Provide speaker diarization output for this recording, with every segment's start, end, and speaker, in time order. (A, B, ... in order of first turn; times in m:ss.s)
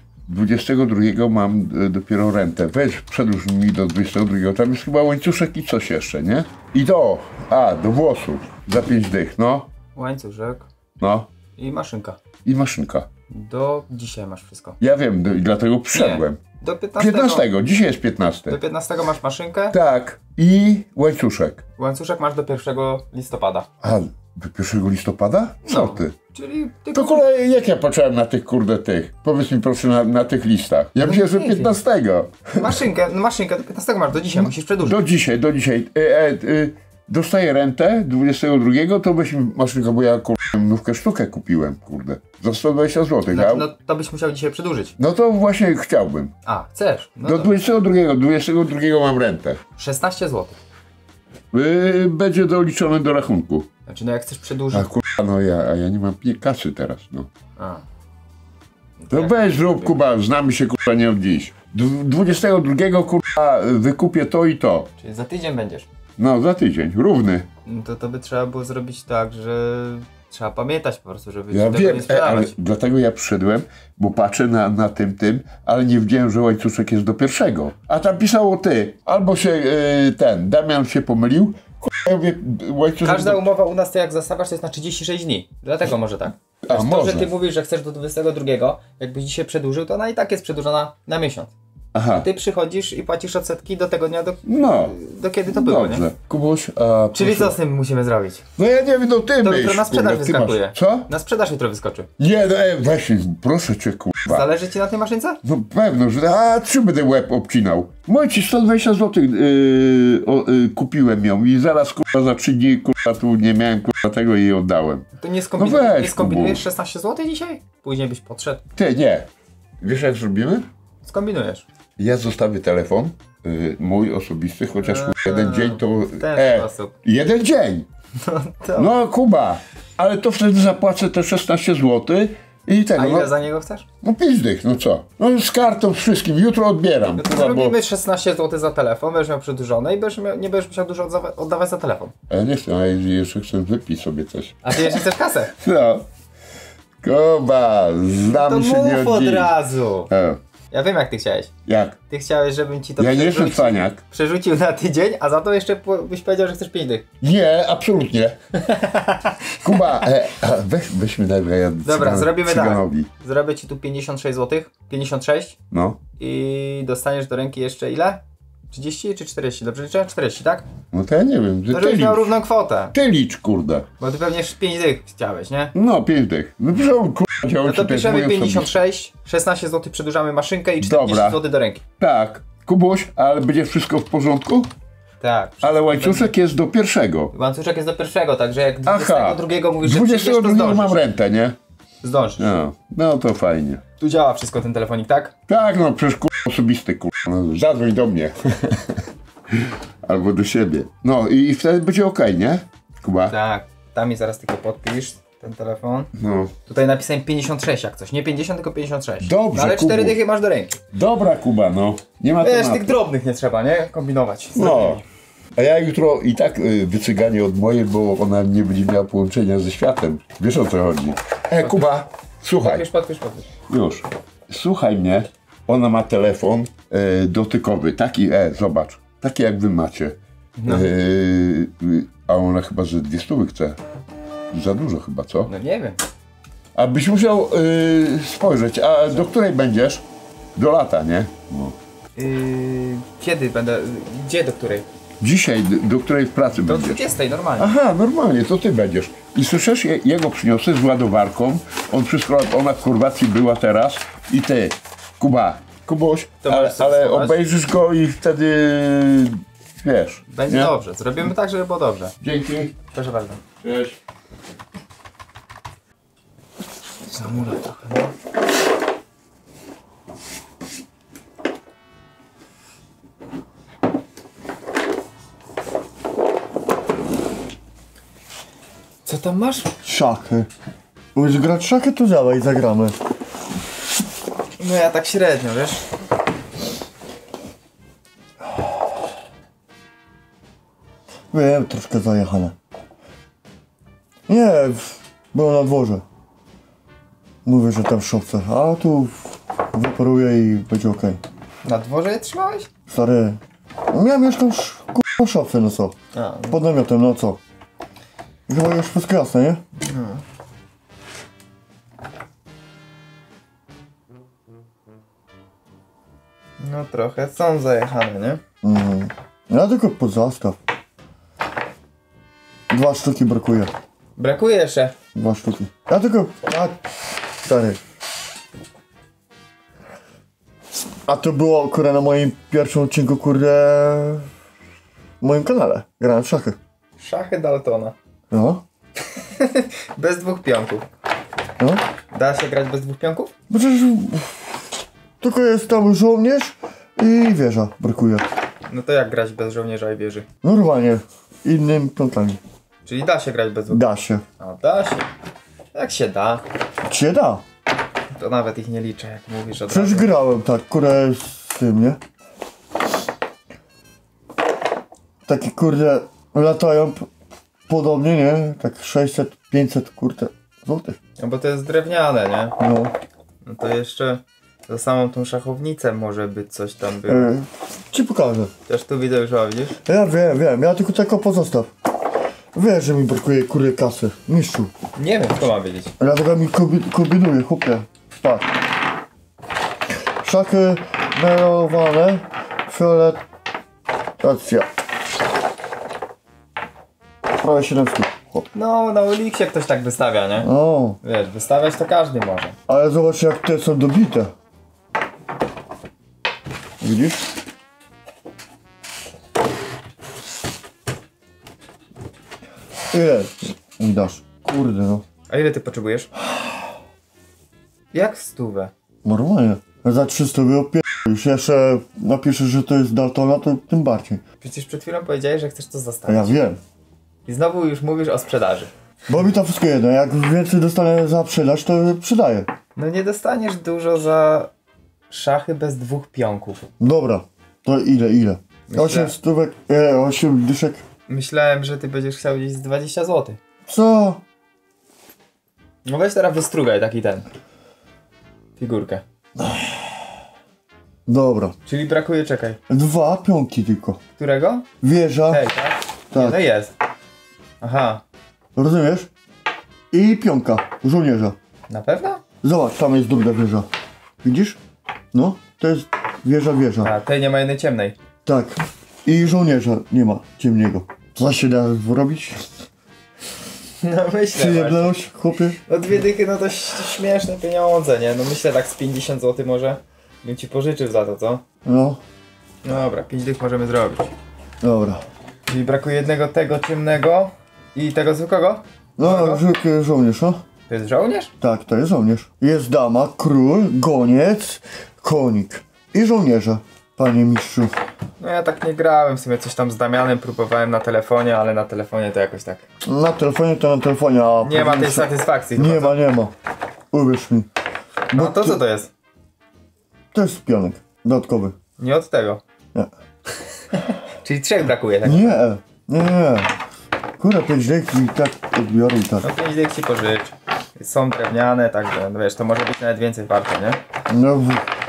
0:00.3-0:09.7 A
0:10.0-0:10.7 B
0:11.0-0:11.3 A
0:11.6-0:12.2 B
0:12.4-0:13.1 A
0:13.3-0:14.8 B
0:14.8-0:16.4 A
0:15.9-0:17.5 B
0:17.0-0:18.6 A
0:18.5-0:19.8 B
0:19.7-0:21.6 A
0:21.8-0:23.7 B
0:23.8-0:26.1 A
0:25.6-0:27.2 B
0:26.9-0:32.7 A
0:31.0-0:31.7 B
0:32.6-0:35.0 B
0:34.4-0:43.7 A
0:43.3-0:45.0 B
0:45.0-0:46.3 A
0:46.4-0:47.6 B
0:47.2-0:49.6 A
0:49.8-0:50.6 B
0:51.5-0:53.7 A
0:53.9-0:54.9 B
0:54.7-0:57.3 A
0:57.6-0:57.8 B
0:59.0-1:00.0 B
0:59.1-1:04.9 A
1:05.0-1:05.9 B
1:06.2-1:07.5 A
1:07.7-1:12.5 B
1:11.5-1:23.4 A
1:23.0-1:31.5 B
1:26.6-1:27.3 A
1:32.0-1:32.3 A
1:32.1-1:36.1 B
1:34.5-1:35.0 A
1:35.5-1:37.6 A
1:37.1-1:38.4 B
1:38.6-1:41.1 A
1:39.4-1:42.1 B
1:42.2-1:44.5 A
1:44.3-1:45.4 B
1:45.4-1:55.0 A
1:55.2-1:58.6 B
1:55.6-1:56.6 A
1:58.8-1:59.3 A
1:59.8-2:00.7 A
2:01.0-2:01.6 B
2:02.0-2:07.9 A
2:04.8-2:07.0 B
2:08.2-2:08.9 B
2:08.8-2:13.3 A
2:13.0-2:13.9 B
2:14.0-2:17.8 A
2:17.2-2:22.1 B
2:22.3-2:25.0 A
2:24.6-2:25.5 B
2:25.6-2:26.0 A
2:27.0-2:29.5 A
2:28.3-2:30.1 B
2:30.1-2:30.4 A
2:30.7-2:31.5 B
2:31.7-2:32.0 A
2:32.1-2:37.0 B
2:33.0-2:34.0 A
2:37.2-2:38.4 A
2:38.6-2:39.4 B
2:39.6-2:43.1 A
2:41.8-2:45.6 B
2:45.7-2:46.0 A
2:46.2-2:50.7 B
2:50.9-2:52.3 A
2:51.7-2:53.0 B
2:52.9-2:53.9 A
2:54.0-2:55.7 B
2:55.8-2:58.7 A
2:57.6-3:01.8 B
3:00.8-3:01.4 A
3:02.0-3:04.7 A
3:05.2-3:06.3 B
3:05.6-3:07.3 A
3:07.3-3:11.0 B
3:08.9-3:11.6 A
3:12.0-3:12.6 B
3:12.4-3:13.8 A
3:14.0-3:15.3 B
3:15.5-3:18.8 A
3:19.5-3:23.3 A
3:23.3-3:26.1 B
3:26.2-3:26.5 A
3:26.7-3:30.8 B
3:29.2-3:30.2 A
3:30.9-3:32.9 A
3:32.4-3:35.0 B
3:34.6-3:35.0 A
3:35.6-3:42.9 A
3:41.6-3:41.9 B
3:42.6-3:43.5 B
3:43.7-3:53.8 A
3:50.6-3:50.9 B
3:54.5-3:55.5 A
3:55.5-3:56.0 B
3:56.8-4:00.0 A
4:00.6-4:01.8 A
4:02.2-4:04.9 B
4:05.2-4:07.0 A
4:06.6-4:07.7 B
4:07.6-4:20.7 A
4:16.4-4:17.4 B
4:20.3-4:22.2 B
4:22.2-4:22.8 A
4:22.9-4:23.4 B
4:23.6-4:24.0 A
4:27.1-4:28.1 B
4:39.0-4:39.7 B
4:39.8-4:40.5 C
4:41.2-4:43.0 C
4:44.6-4:45.9 B
4:51.3-4:52.5 C
4:54.3-4:56.0 C
4:57.4-5:01.2 C
5:01.6-5:02.7 B
5:02.9-5:03.4 C
5:03.9-5:05.9 C
5:06.1-5:06.6 B
5:06.5-5:07.4 C
5:08.5-5:09.6 C
5:09.8-5:10.2 B
5:16.6-5:18.4 B
5:18.6-5:20.6 C
5:22.7-5:23.7 C
5:24.2-5:24.9 B
5:25.2-5:26.8 C
5:27.4-5:27.8 C
5:31.1-5:34.3 C
5:35.2-5:36.6 C
5:37.0-5:37.9 B
5:38.3-5:38.6 C
5:39.3-5:40.9 B
5:42.1-5:43.3 B
5:43.5-5:44.6 C
5:45.2-5:48.2 C
5:48.7-5:50.3 B
5:50.4-5:52.4 C
5:52.9-5:53.8 B
5:53.7-5:54.2 C
5:54.4-5:55.1 B
5:55.7-5:56.4 B
5:56.9-5:57.4 C
5:58.1-6:00.1 B
5:59.7-6:02.0 C
6:05.3-6:07.1 C
6:07.7-6:11.0 C
6:11.2-6:12.6 B
6:12.6-6:13.0 C
6:13.4-6:17.3 B
6:17.1-6:18.5 C
6:18.7-6:19.8 B
6:19.8-6:21.7 C
6:22.5-6:24.7 C
6:25.0-6:25.9 B
6:26.0-6:28.5 C
6:30.2-6:33.2 C
6:34.2-6:34.7 C
6:37.4-6:38.5 C
6:38.5-6:40.5 B
6:40.4-6:41.0 C
6:41.0-6:42.6 B
6:42.7-6:44.3 C
6:46.8-6:47.2 C
6:52.9-6:55.0 C
6:55.3-6:56.1 B
6:57.9-6:58.7 B
6:59.0-7:04.2 C
7:04.4-7:06.4 B
7:06.1-7:06.6 C
7:07.3-7:08.7 B
7:09.1-7:12.5 C
7:12.8-7:14.5 B
7:15.1-7:16.7 B
7:16.8-7:20.8 C
7:18.7-7:19.2 B
7:21.1-7:23.4 B
7:23.7-7:24.2 C
7:25.9-7:27.3 B
7:28.6-7:29.0 B
7:31.1-7:31.5 C
7:31.7-7:32.6 B
7:32.7-7:34.0 C
7:34.2-7:34.7 B
7:34.8-7:35.4 C
7:35.3-7:36.7 B
7:36.1-7:36.4 C
7:37.6-7:38.0 B
7:38.6-7:39.1 C
7:39.9-7:41.4 C
7:41.7-7:42.2 B
7:42.4-7:43.7 C
7:44.2-7:44.6 C
7:45.1-7:46.9 C
7:46.8-7:48.0 B
7:48.3-7:52.4 C
7:53.8-7:54.9 B
7:54.3-7:55.6 C
7:55.7-8:01.4 B
8:01.6-8:02.0 C
8:02.6-8:04.1 B
8:04.6-8:05.0 C
8:05.5-8:09.4 B
8:09.0-8:10.4 C
8:10.7-8:11.3 B
8:11.4-8:17.7 C
8:18.2-8:22.6 B
8:22.9-8:26.3 C
8:24.4-8:26.0 B
8:26.9-8:27.5 C
8:28.1-8:28.6 C
8:28.1-8:28.9 B
8:30.1-8:31.6 C
8:31.8-8:32.4 B
8:34.2-8:35.4 B
8:35.0-8:36.5 C
8:37.2-8:39.3 C
8:39.2-8:43.8 B
8:44.1-8:44.6 C